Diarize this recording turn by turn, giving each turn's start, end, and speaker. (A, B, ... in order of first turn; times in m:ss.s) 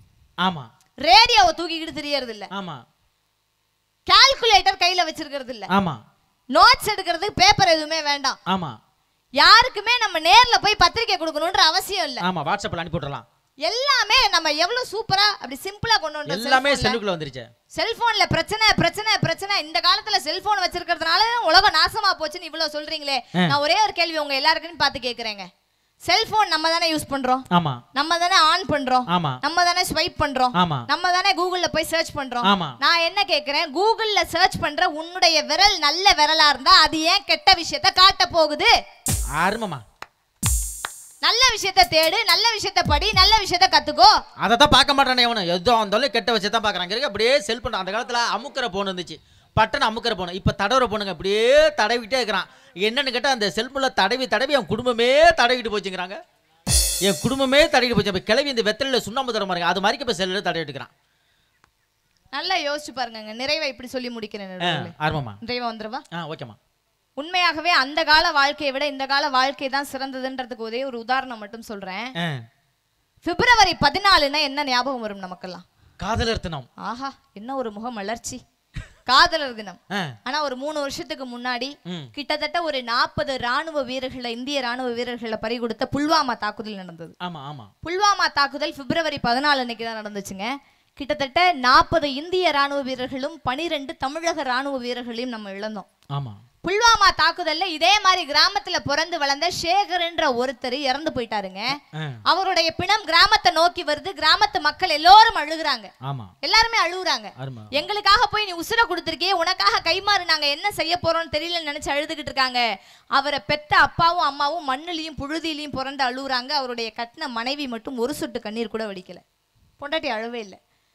0:00.4-0:00.7 A
0:01.0-0:02.5 B
0:02.5-0:02.8 A
0:04.1-0:05.7 B
0:05.7-0:06.0 A
0:06.6-0:08.4 B
0:08.5-0:08.8 A
0:09.4-0:12.2 B
0:12.2-0:13.3 A
0:13.7-0:17.0 B
0:16.3-0:17.5 A
0:17.8-0:25.5 B
0:26.1-0:38.7 B
0:27.5-0:27.8 A
0:29.1-0:29.4 A
0:30.6-0:30.9 A
0:32.4-0:32.8 A
0:39.4-0:39.8 A
0:41.2-0:44.2 B
0:44.4-0:56.2 A
0:57.0-1:00.9 A
1:02.3-1:06.0 B
1:04.6-1:05.4 A
1:06.1-1:06.6 A
1:07.2-1:12.1 B
1:12.2-1:12.4 A
1:13.2-1:15.6 B
1:16.0-1:16.7 A
1:16.8-1:18.4 B
1:19.1-1:27.1 B
1:19.9-1:20.2 A
1:21.9-1:22.1 A
1:27.2-1:27.7 A
1:27.8-1:35.9 B
1:36.1-1:36.4 A
1:36.6-1:45.9 B
1:41.9-1:42.2 A
1:46.0-1:46.3 A
1:46.4-1:52.6 B
1:47.4-1:47.7 A
1:53.2-1:59.2 B
1:59.8-2:00.6 B